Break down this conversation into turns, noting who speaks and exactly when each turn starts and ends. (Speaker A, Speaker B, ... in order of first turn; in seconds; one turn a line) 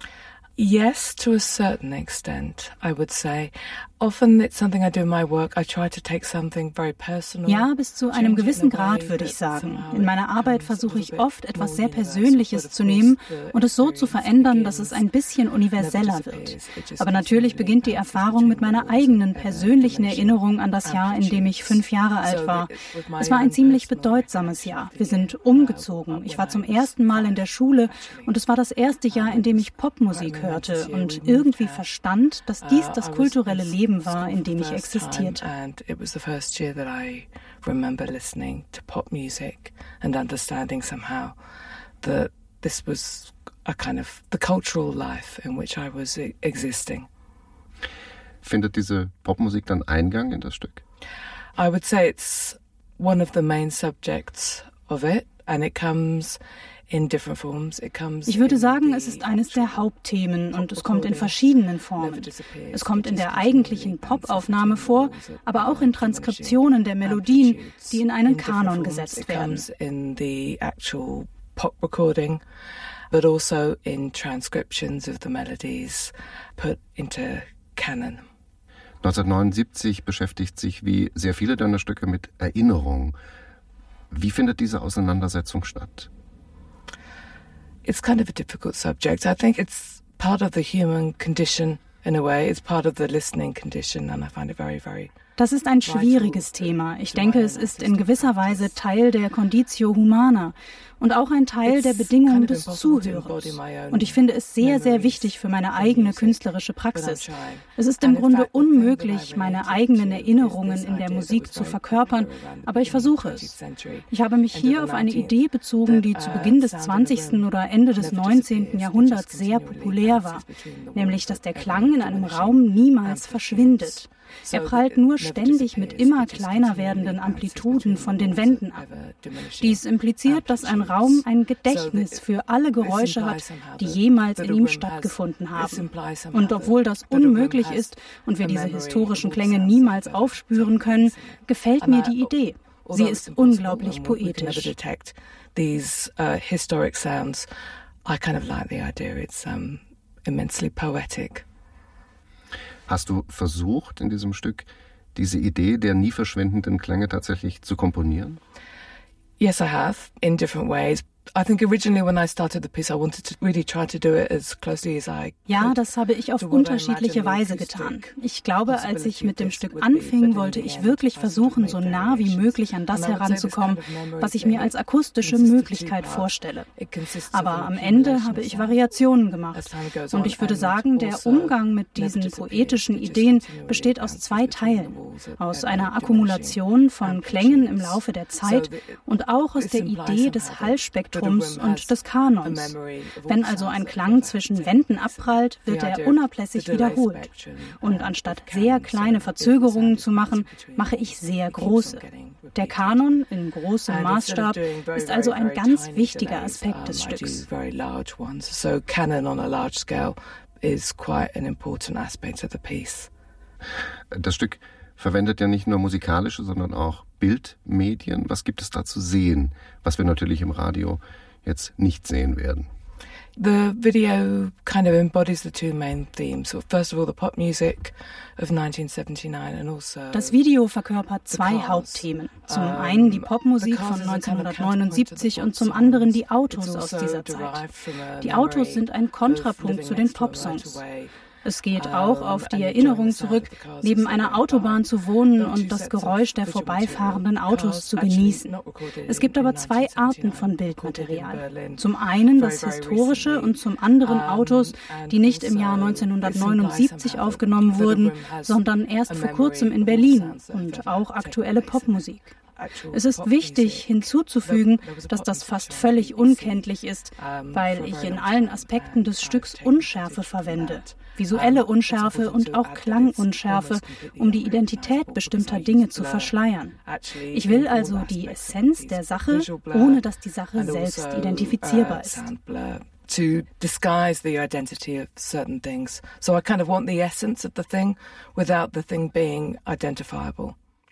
Speaker A: 0.6-15.1
Speaker B: 7.5-35.4
Speaker A: 15.8-28.3
Speaker A: 29.1-31.8
Speaker A: 32.6-41.4
Speaker A: 42.0-47.1
Speaker C: 48.4-50.8
Speaker A: 51.5-59.9
Speaker B: 58.2-69.6
Speaker A: 60.5-61.4
Speaker A: 61.9-72.4
Speaker A: 73.1-78.2
Speaker C: 79.0-83.2
Speaker C: 84.1-86.1
Speaker A: 87.8-95.1
Speaker B: 95.4-113.5
Speaker A: 95.8-98.8
Speaker A: 101.6-132.2
Speaker B: 114.1-128.8
Speaker B: 129.6-144.7
Speaker A: 132.8-142.3
Speaker A: 142.8-147.5
Speaker A: 148.0-151.4
Speaker C: 152.9-158.4
Speaker A: 159.4-165.8
Speaker B: 165.5-176.7
Speaker A: 166.4-168.1
Speaker A: 168.7-178.8
Speaker B: 177.3-197.3
Speaker A: 179.5-203.1
Speaker B: 197.8-202.0
Speaker B: 202.5-207.4
Speaker A: 203.9-213.1
Speaker C: 214.1-222.7
Speaker A: 223.4-230.4
Speaker B: 230.1-237.6
Speaker A: 231.3-241.1
Speaker B: 238.2-240.8
Speaker B: 241.4-248.5
Speaker A: 241.7-290.5
Speaker B: 249.1-262.3
Speaker B: 262.9-276.8
Speaker B: 277.3-282.2